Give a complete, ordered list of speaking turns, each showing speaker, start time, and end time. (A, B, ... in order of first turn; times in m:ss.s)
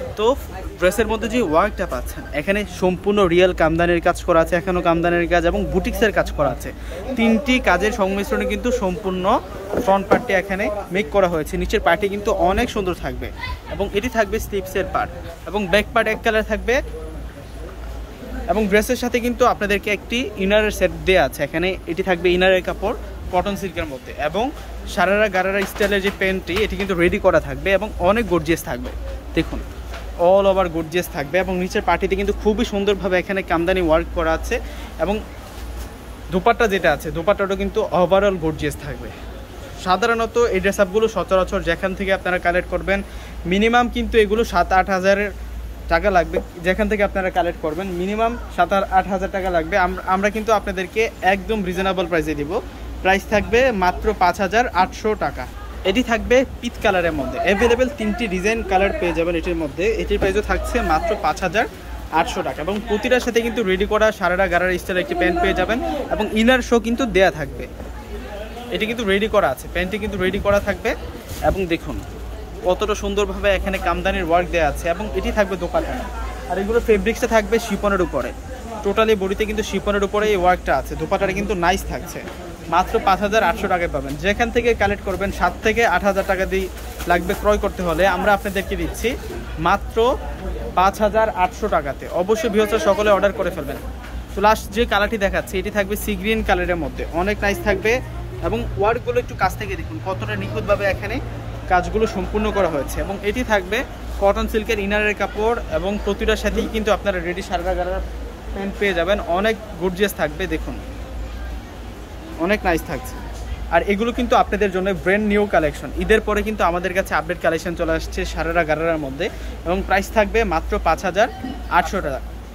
0:00.2-0:16.8 A
0:18.5-0:29.6 A
0:30.2-0:35.2 A
0:36.3-0:39.1 A
0:39.8-0:45.3 A
0:45.9-1:07.7 A
1:08.7-1:10.9 A
1:11.5-1:12.0 A
1:12.7-1:29.1 A
1:29.6-1:30.1 A
1:30.8-1:33.8 A
1:34.3-1:50.8 A
1:52.4-2:02.2 A